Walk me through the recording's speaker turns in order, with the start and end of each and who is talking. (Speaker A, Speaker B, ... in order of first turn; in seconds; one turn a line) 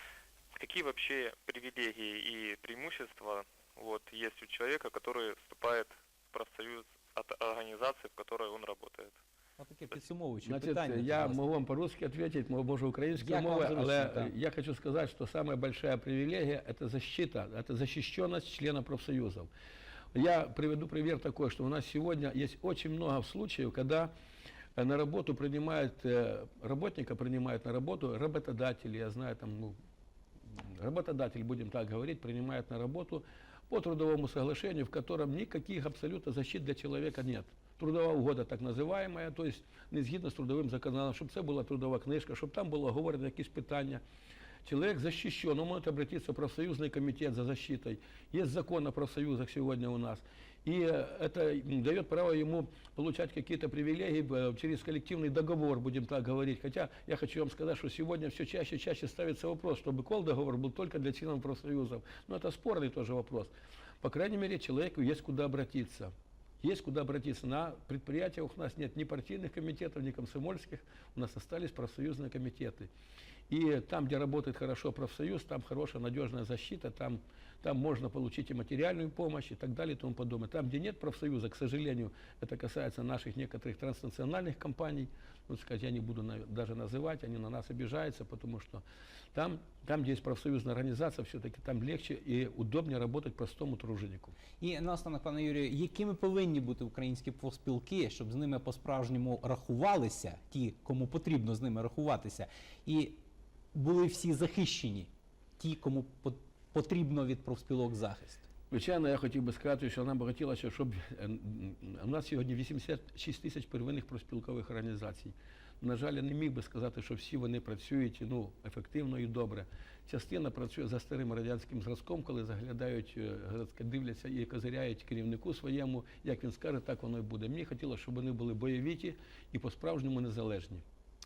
Speaker A: 0.5-9.2
Speaker B: 9.6-11.4
Speaker C: 10.4-19.5
Speaker B: 13.2-14.3
Speaker C: 20.1-24.1
Speaker C: 24.8-29.8
Speaker C: 30.5-44.0
Speaker C: 44.6-66.1
Speaker C: 66.6-72.9
Speaker C: 73.5-94.3
Speaker B: 94.6-103.2
Speaker B: 103.7-108.5
Speaker C: 108.7-130.8